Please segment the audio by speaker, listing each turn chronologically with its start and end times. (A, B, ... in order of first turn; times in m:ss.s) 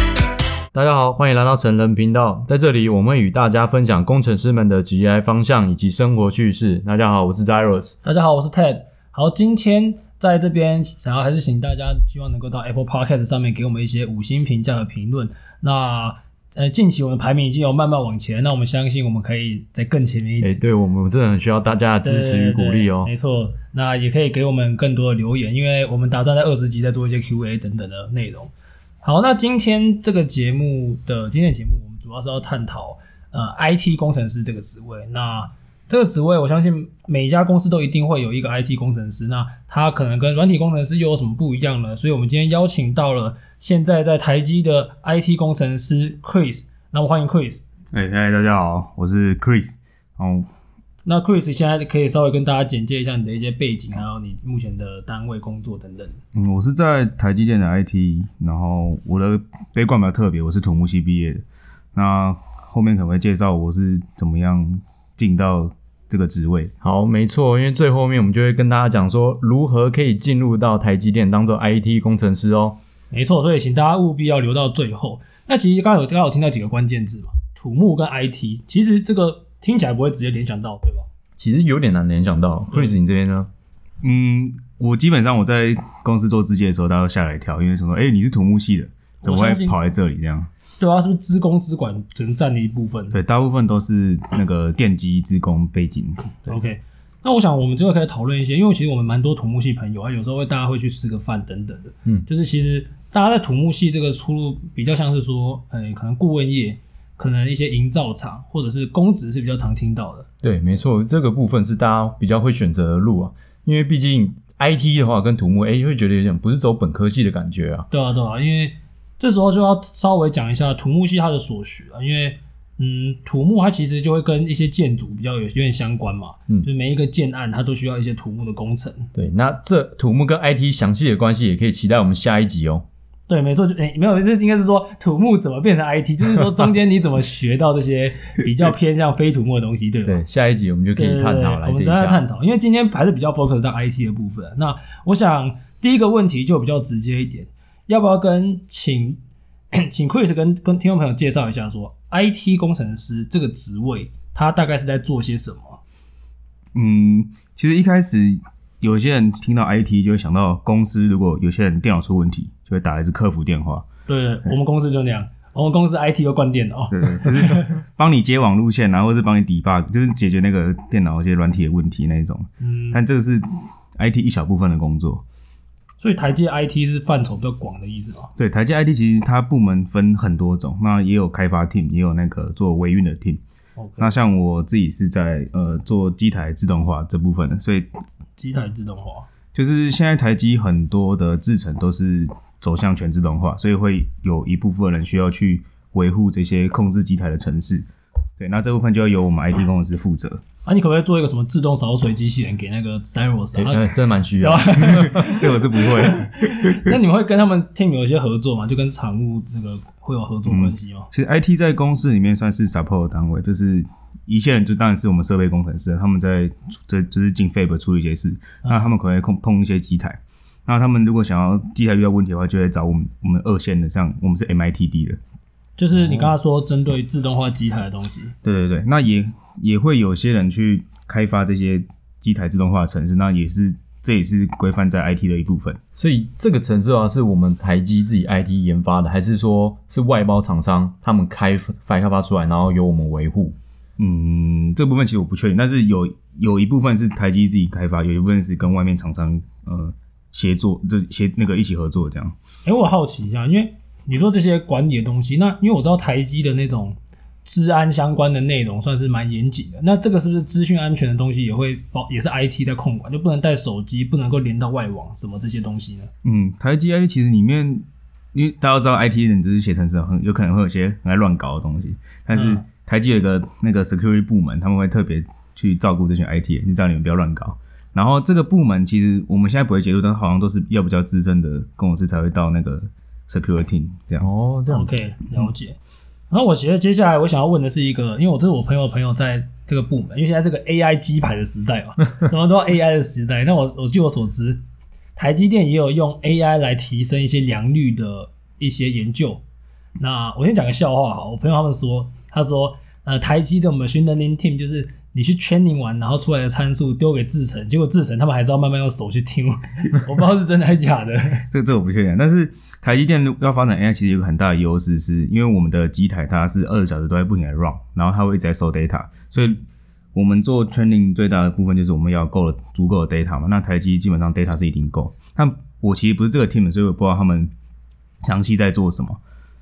0:00.7-0:08.0 A
0:08.0-0:20.6 B
0:20.4-0:23.1 A
0:22.0-0:47.6 B
0:47.9-0:50.5 C
0:51.0-0:56.2 B
0:56.4-1:01.4 C
1:02.0-1:06.7 C
1:06.8-1:12.8 A
1:13.1-1:21.0 B
1:21.4-1:23.5 A
1:24.0-1:30.5 C
1:29.2-1:29.8 B
1:30.8-1:33.2 B
1:33.1-1:36.6 C
1:36.5-1:50.2 B
1:50.4-1:57.9 A
1:57.9-2:09.1 B
2:09.2-2:12.8 A
2:13.3-2:20.2 B
2:20.0-2:22.2 A
2:20.9-2:29.2 B
2:29.7-2:35.8 B
2:36.8-2:43.8 C
2:44.1-2:47.8 B
2:46.9-2:55.2 C
2:52.6-2:53.0 B
2:56.0-2:58.3 B
2:58.4-3:03.4 C
3:03.8-3:04.1 B
3:04.0-3:07.9 C
3:08.4-3:09.3 B
3:09.5-3:17.9 C
3:18.4-3:20.4 C
3:20.6-3:23.9 B
3:23.6-3:25.2 A
3:24.4-3:31.1 B
3:24.7-3:26.9 C
3:30.5-3:45.2 C
3:38.6-3:38.9 B
3:45.8-3:48.3 B
3:48.4-3:55.8 C
3:56.0-4:03.6 A
4:04.0-4:12.4 C
4:12.6-4:26.1 B
4:26.2-4:44.3 C
4:32.3-4:32.6 B
4:44.2-4:44.9 A
4:44.7-4:45.8 B
4:46.3-4:54.6 B
4:55.2-4:59.4 B
5:00.0-5:11.4 B
5:11.5-5:19.6 C
5:20.1-5:27.5 C
5:28.2-5:29.2 C